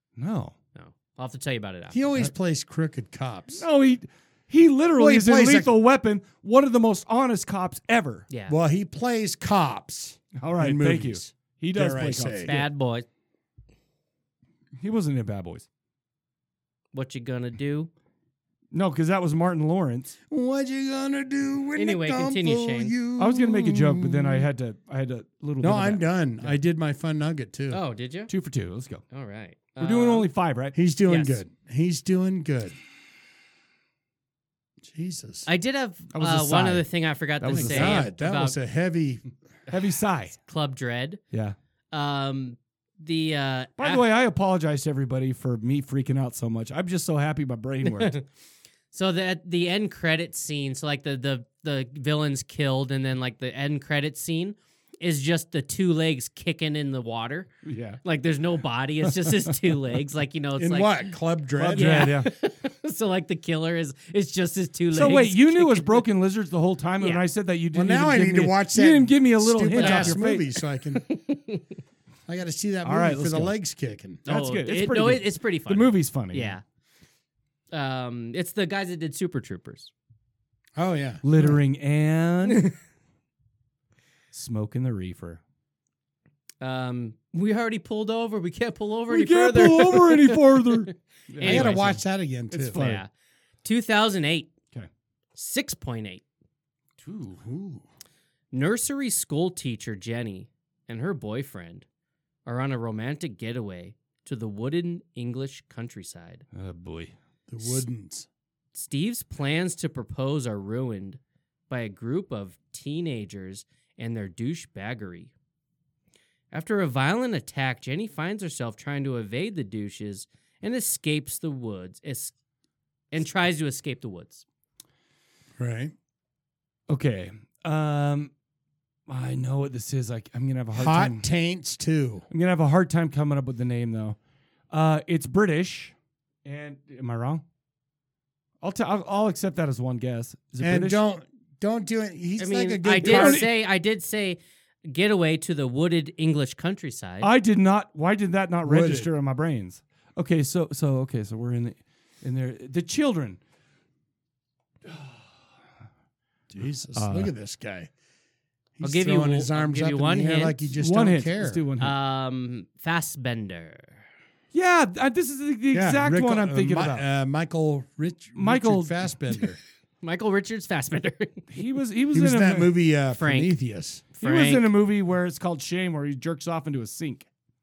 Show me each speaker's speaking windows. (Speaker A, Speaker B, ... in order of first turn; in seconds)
Speaker A: 0.2-0.6, 3.6-8.3, 10.4-12.7, 14.8-15.7, 18.7-20.1, 23.2-26.6, 28.3-29.0, 29.8-30.8, 36.1-36.9, 37.4-38.1, 39.7-40.4, 43.8-48.2, 57.6-58.0, 61.6-62.3, 64.9-70.5, 72.8-73.5, 74.3-76.5, 81.2-82.7, 84.3-85.4, 89.1-93.0, 97.0-97.4, 106.5-107.1, 126.9-128.3, 129.1-131.2, 132.3-134.2, 134.7-135.9, 136.4-137.4, 138.6-141.0, 143.0-143.5, 147.2-153.4, 154.9-155.2, 156.9-157.3, 160.8-161.9, 164.5-167.1, 168.3-169.0, 171.5-172.7, 174.2-177.3
Speaker B: 0.8-2.0, 8.3-8.6, 12.4-13.1, 16.9-17.9, 21.8-22.9, 27.7-28.3, 29.1-30.3, 31.1-31.4, 35.5-38.6, 40.3-41.2, 41.9-44.0, 47.9-48.2, 48.9-57.5, 58.0-61.2, 61.7-66.0, 69.7-70.3, 71.0-71.7, 74.3-76.6, 77.7-79.9, 86.6-90.4, 91.4-92.0, 92.8-93.1, 93.6-94.5, 95.4-96.2, 98.5-101.8, 102.5-106.4, 108.7-115.3, 116.5-122.3, 123.1-124.4, 142.4-147.3, 158.8-160.6, 161.8-164.0, 170.0-171.5, 173.2-173.6, 174.2-174.7
Speaker C: 1.9-3.6, 5.0-5.7, 8.5-12.5, 20.3-24.5, 25.6-27.8, 30.8-32.8, 34.8-35.5, 37.5-39.2, 60.6-62.1, 67.7-71.0, 72.3-74.2, 80.8-81.6, 91.4-92.8, 97.4-97.8, 107.5-108.3, 125.6-125.9, 130.7-132.3, 140.6-143.4, 148.7-149.1, 156.5-157.9, 158.8-161.6, 165.7-169.6, 172.1-174.1